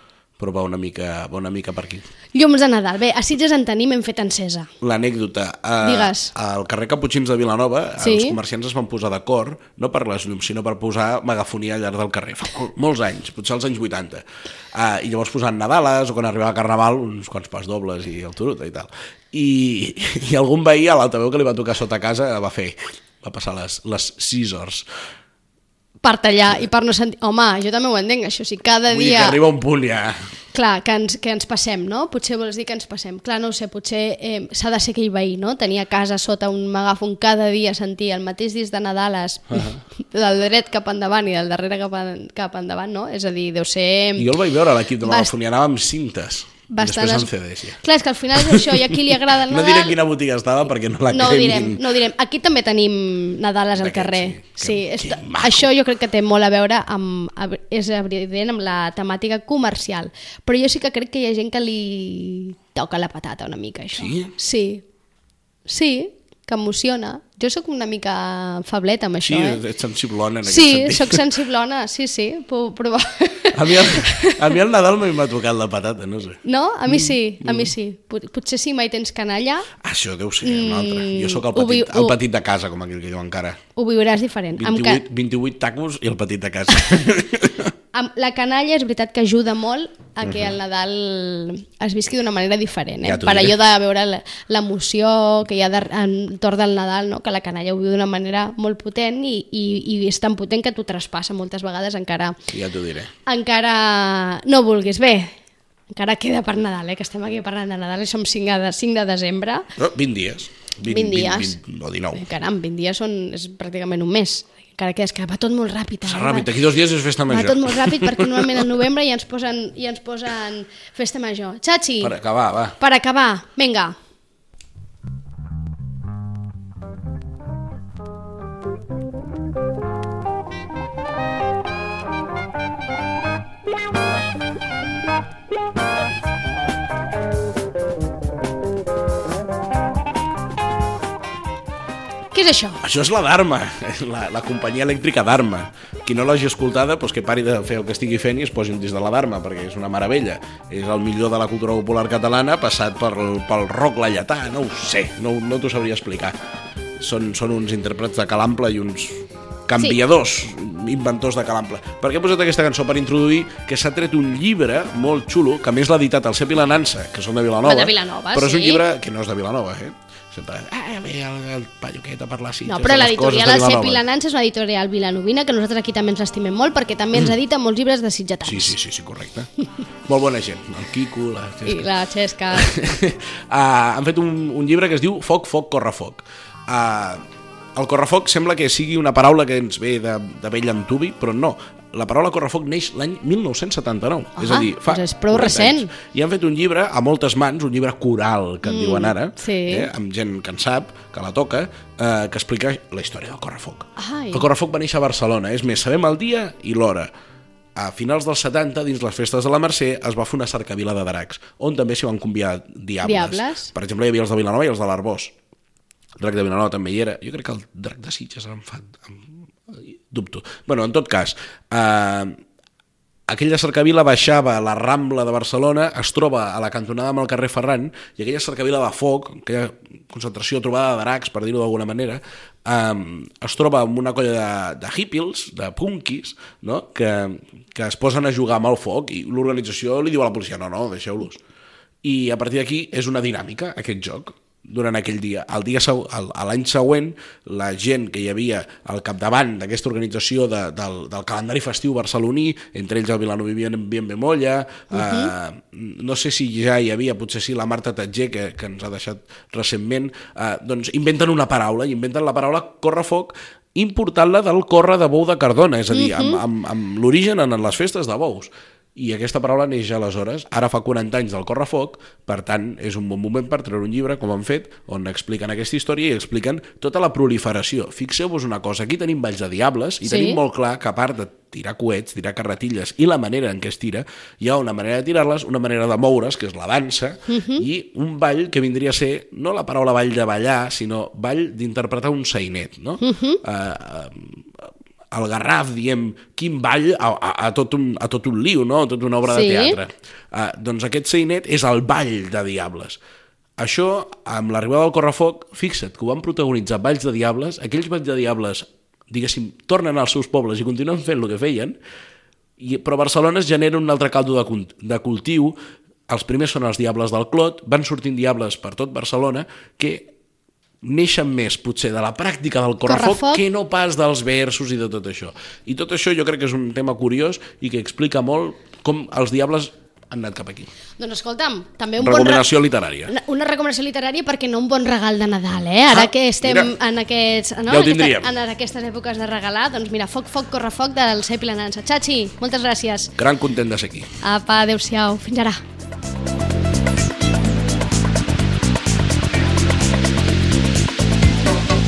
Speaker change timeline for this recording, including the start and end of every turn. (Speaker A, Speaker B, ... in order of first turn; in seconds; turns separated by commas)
Speaker A: 0.4-2.0, Speaker B: 2.3-4.7, Speaker A: 4.8-24.9, Speaker B: 5.8-6.3, Speaker B: 8.0-8.4, Speaker B: 26.0-29.4, Speaker A: 28.9-30.3, Speaker B: 30.5-44.3, Speaker A: 39.5-39.8, Speaker A: 44.1-47.8, Speaker B: 45.0-45.3, Speaker B: 46.7-50.0, Speaker A: 48.4-51.8, Speaker B: 51.1-64.8, Speaker A: 53.8-55.7, Speaker A: 64.0-64.3, Speaker B: 65.7-69.6, Speaker A: 69.2-71.2, Speaker B: 70.5-74.5, Speaker A: 73.5-77.7, Speaker B: 76.4-79.7, Speaker A: 79.8-83.6, Speaker B: 80.4-82.2, Speaker B: 83.8-85.0, Speaker A: 84.6-87.7, Speaker B: 87.9-102.4, Speaker A: 90.2-90.5, Speaker A: 93.0-93.6, Speaker A: 102.5-103.1, Speaker B: 103.3-105.3, Speaker B: 105.9-109.7, Speaker A: 109.8-112.3, Speaker B: 110.8-111.6, Speaker B: 112.1-116.5, Speaker A: 116.0-118.7, Speaker B: 117.3-122.1, Speaker A: 122.0-122.8, Speaker B: 122.8-124.0, Speaker B: 142.3-142.8, Speaker A: 142.8-156.3, Speaker A: 157.0-174.0, Speaker B: 167.6-168.8, Speaker B: 172.6-178.7, Speaker A: 178.4-179.5, Speaker A: 180.0-181.9, Speaker B: 181.6-182.7, Speaker A: 182.5-207.1, Speaker B: 194.4-195.9, Speaker B: 198.6-199.9, Speaker B: 204.0-204.4, Speaker A: 207.7-215.3, Speaker B: 213.0-213.7, Speaker A: 216.2-222.4, Speaker A: 223.3-241.4, Speaker A: 242.0-303.0, Speaker B: 254.9-255.3, Speaker B: 265.9-266.4, Speaker B: 280.0-280.4, Speaker B: 287.3-287.6, Speaker B: 293.0-293.4, Speaker B: 299.3-299.8, Speaker A: 303.6-311.8, Speaker A: 312.6-315.6, Speaker A: 316.1-320.1, Speaker A: 320.8-330.7, Speaker B: 322.9-323.4, Speaker B: 331.0-332.5, Speaker A: 332.0-333.1, Speaker B: 333.1-343.1, Speaker A: 335.9-336.7, Speaker A: 337.7-338.3, Speaker A: 343.2-344.1, Speaker B: 344.2-345.6